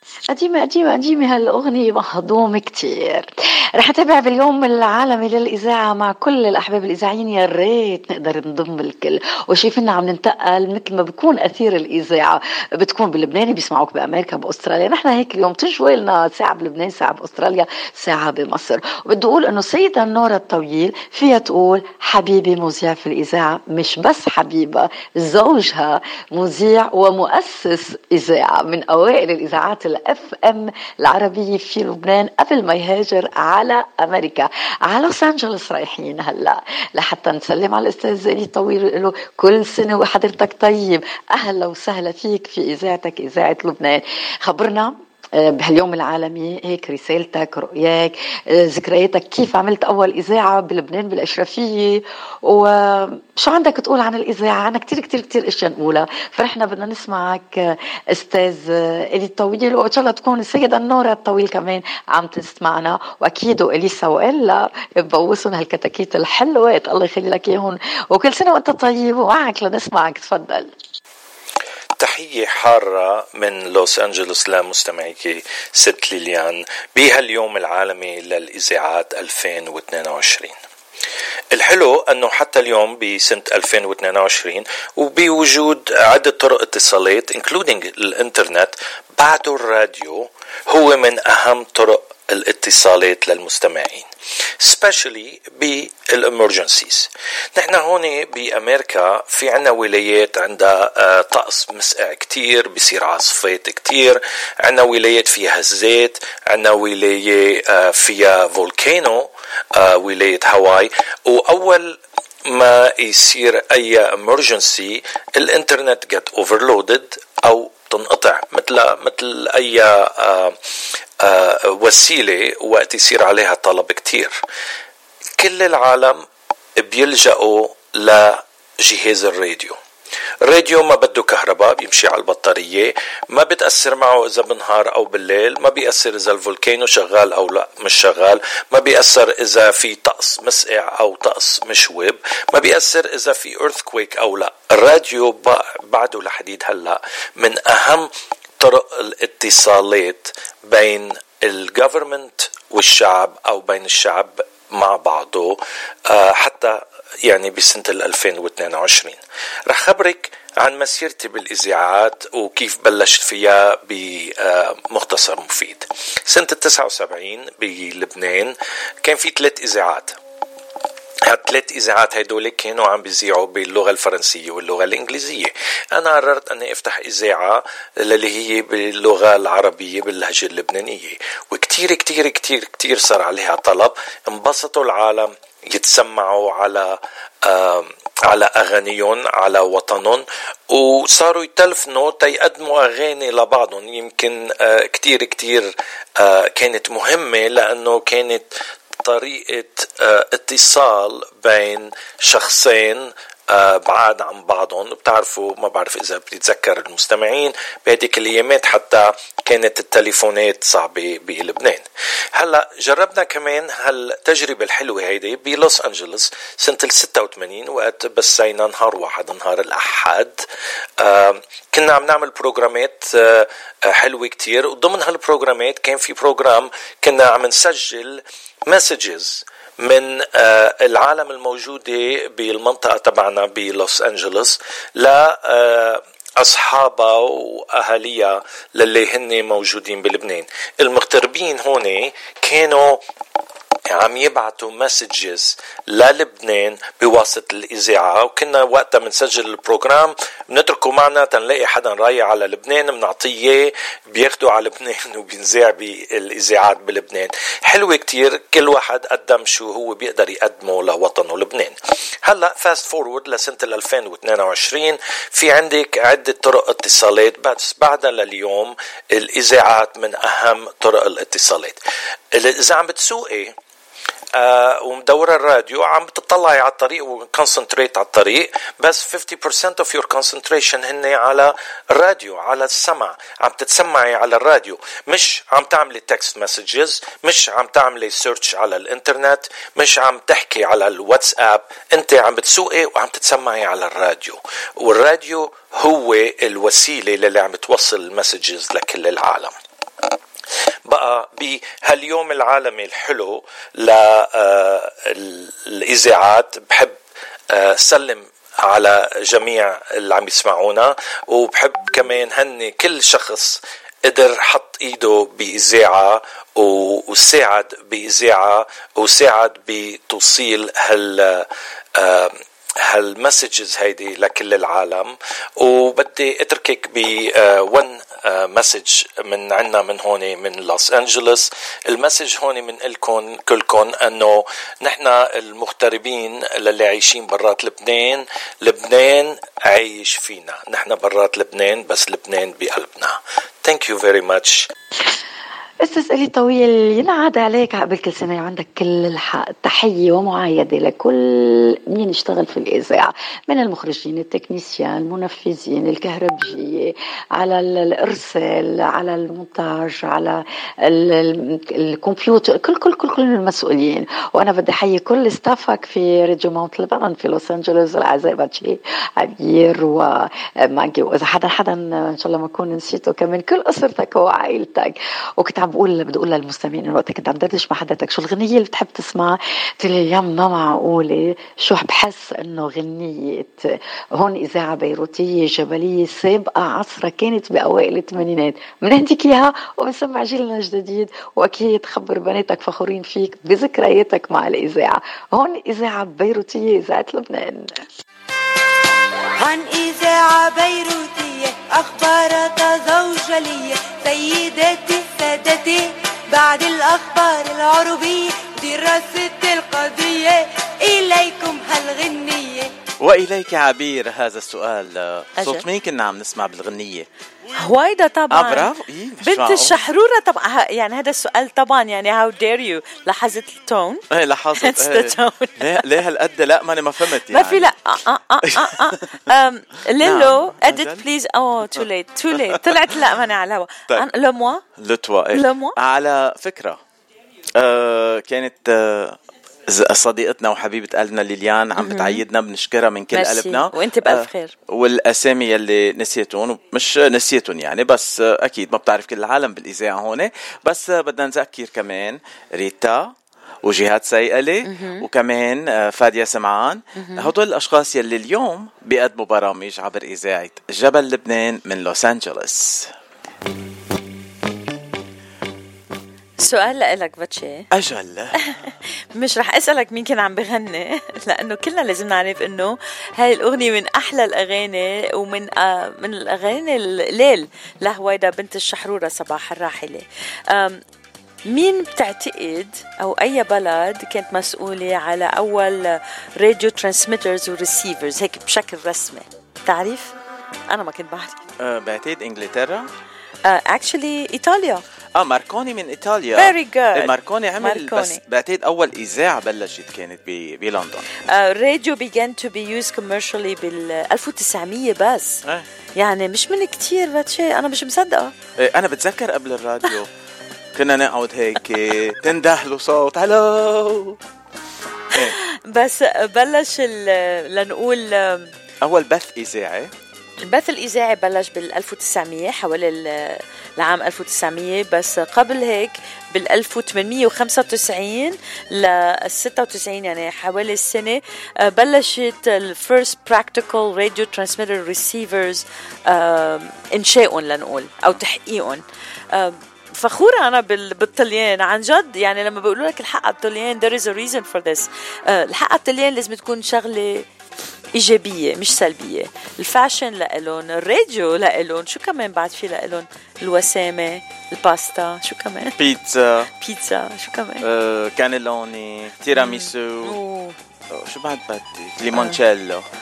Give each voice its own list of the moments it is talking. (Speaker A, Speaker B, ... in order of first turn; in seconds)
Speaker A: 0.3-70.7, 345.8-397.9
Speaker B: 72.0-80.6, 81.5-94.1, 94.6-120.6, 121.2-124.3, 125.4-126.2, 126.8-129.8, 130.4-170.2, 171.3-220.4, 221.0-243.0, 243.9-271.8, 272.3-273.6, 274.4-299.6, 300.9-307.0, 307.5-344.7
Speaker C: 399.4-412.7
Speaker D: 413.0-417.1, 418.3-419.8, 424.1-427.7, 428.6-429.0, 430.0-431.1, 432.4-433.0, 434.8-436.8, 437.6-462.9, 467.7-468.4, 491.6-492.9, 495.2-501.1, 508.6-510.1, 510.8-514.2, 518.8-519.9, 555.8-556.5, 557.6-560.2, 560.9-562.9
Speaker E: 417.6-418.7, 419.2-424.0, 424.6-425.6, 427.3-434.6, 435.3-435.8, 441.8-442.2, 443.1-444.6, 454.6-455.1, 457.0-457.3, 466.4-467.7, 469.2-480.8, 481.5-490.1, 490.7-491.4, 493.4-494.8, 496.4-498.2, 501.3-505.4, 506.0-508.3, 515.4-518.5, 520.4-547.3, 547.9-555.8, 556.6-557.6, 559.4-560.6